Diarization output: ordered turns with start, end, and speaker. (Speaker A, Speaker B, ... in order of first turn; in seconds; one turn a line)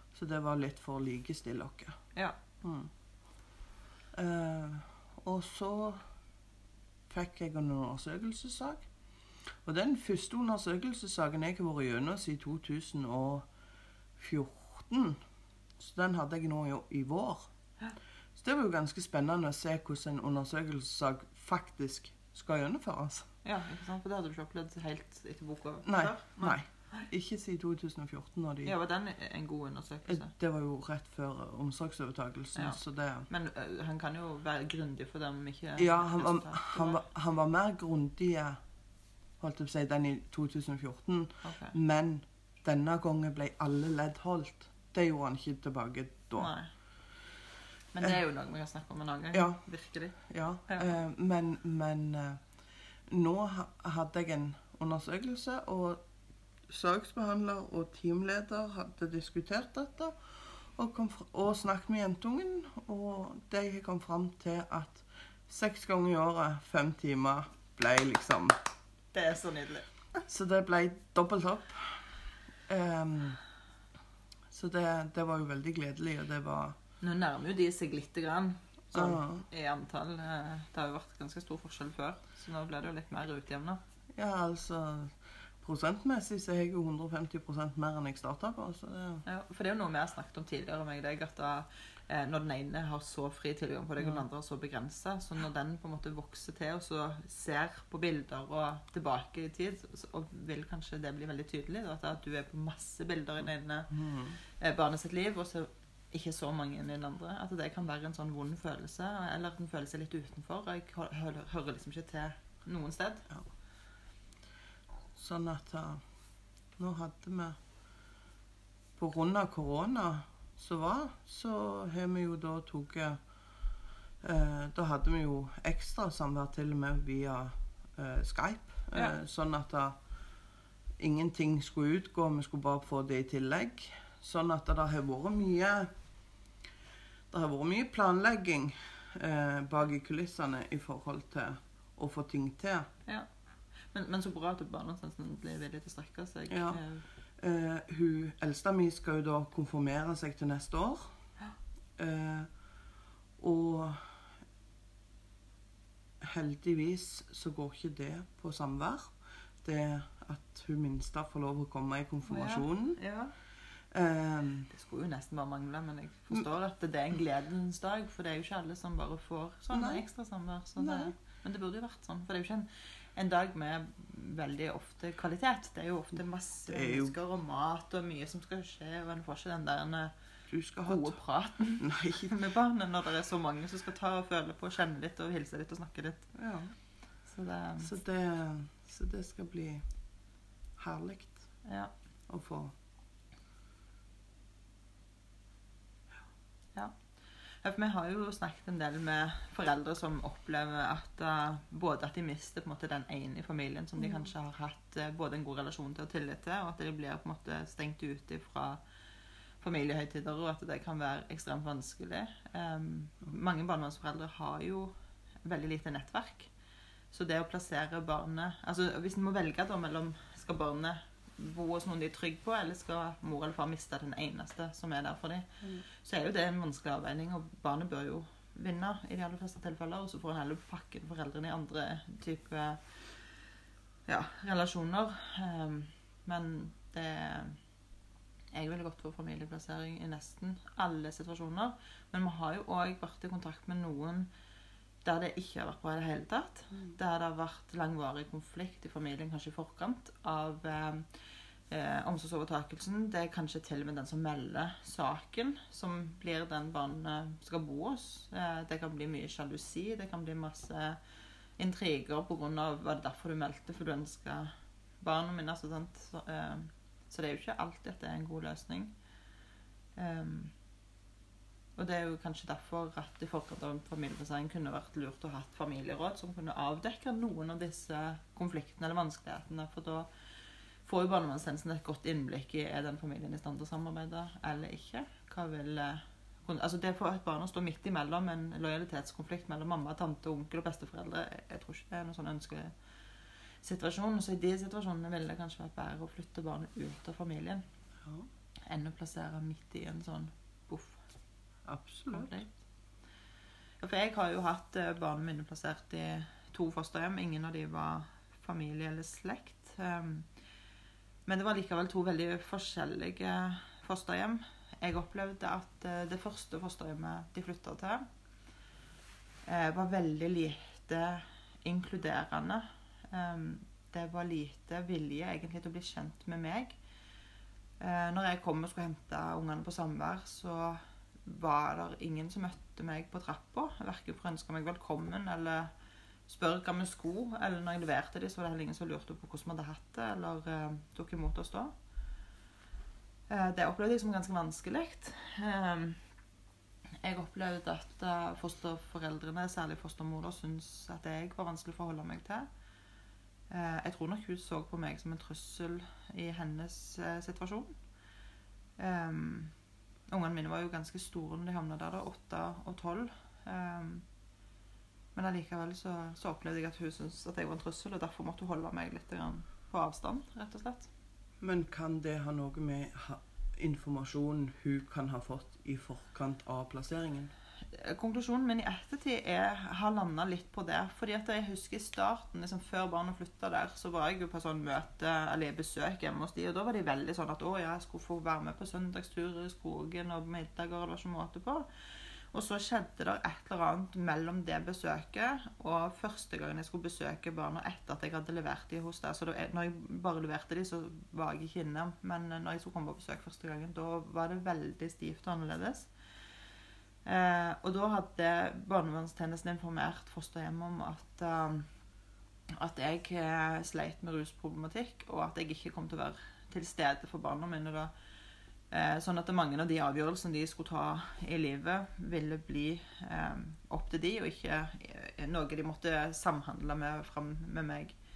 Speaker A: 0.1-2.0
Speaker A: 2.6-2.9
Speaker A: 4.1-6.0
Speaker A: 7.1-8.9
Speaker A: 9.6-13.5
Speaker A: 14.2-15.2
Speaker A: 15.8-17.5
Speaker A: 18.4-23.3
Speaker B: 23.4-27.1
Speaker A: 25.9-28.8
Speaker B: 28.6-30.3
Speaker A: 30.1-33.3
Speaker B: 32.5-37.0
Speaker A: 35.8-38.6
Speaker A: 39.4-46.5
Speaker B: 41.4-41.8
Speaker B: 46.4-46.7
Speaker B: 47.9-50.2
Speaker A: 49.3-49.6
Speaker A: 50.2-52.4
Speaker A: 53.1-56.0
Speaker A: 56.7-68.6
Speaker B: 69.1-69.9
Speaker A: 70.3-72.1
Speaker A: 72.7-73.4
Speaker A: 74.5-76.8
Speaker B: 77.0-83.8
Speaker A: 78.9-79.5
Speaker A: 84.2-89.2
Speaker B: 89.2-103.9
Speaker A: 103.9-104.4
Speaker B: 104.4-113.3
Speaker A: 115.2-116.0
Speaker A: 116.8-117.6
Speaker A: 119.0-123.2
Speaker A: 124.2-130.0
Speaker A: 131.0-135.9
Speaker A: 137.3-142.9
Speaker B: 143.9-147.0
Speaker A: 146.5-146.8
Speaker A: 147.4-151.1
Speaker A: 152.0-152.5
Speaker A: 153.4-154.1
Speaker A: 156.2-163.0
Speaker B: 162.3-163.3
Speaker A: 163.9-164.7
Speaker B: 164.7-180.1
Speaker A: 169.7-170.1
Speaker A: 170.8-171.1
Speaker A: 176.7-177.2
Speaker A: 180.5-181.2
Speaker B: 180.8-186.3
Speaker A: 181.8-182.3
Speaker A: 186.3-186.7
Speaker B: 187.3-187.9
Speaker A: 187.8-189.8
Speaker A: 190.8-191.5
Speaker B: 191.7-191.9
Speaker A: 192.3-192.7
Speaker B: 197.6-208.8
Speaker A: 204.0-204.3
Speaker B: 209.6-214.9
Speaker B: 215.4-216.5
Speaker B: 217.1-233.0
Speaker B: 234.1-237.6
Speaker B: 238.5-244.3
Speaker B: 245.0-251.1
Speaker B: 251.7-261.0
Speaker B: 261.6-268.9
Speaker B: 270.0-270.5
Speaker B: 271.8-280.1
Speaker B: 280.8-292.7
Speaker B: 293.6-297.6
Speaker B: 298.7-301.0
Speaker A: 301.6-302.4
Speaker B: 302.1-302.5
Speaker B: 303.8-310.3
Speaker B: 311.3-318.1
Speaker B: 319.5-326.8
Speaker B: 327.8-335.7
Speaker B: 336.3-341.7
Speaker B: 343.3-346.0
Speaker B: 347.0-352.5
Speaker B: 353.5-357.8
Speaker B: 358.8-359.5
Speaker B: 360.1-364.1
Speaker B: 365.1-370.9
Speaker A: 371.4-377.3
Speaker B: 377.7-405.9
Speaker B: 407.1-411.7
Speaker B: 412.5-417.9
Speaker B: 418.7-428.0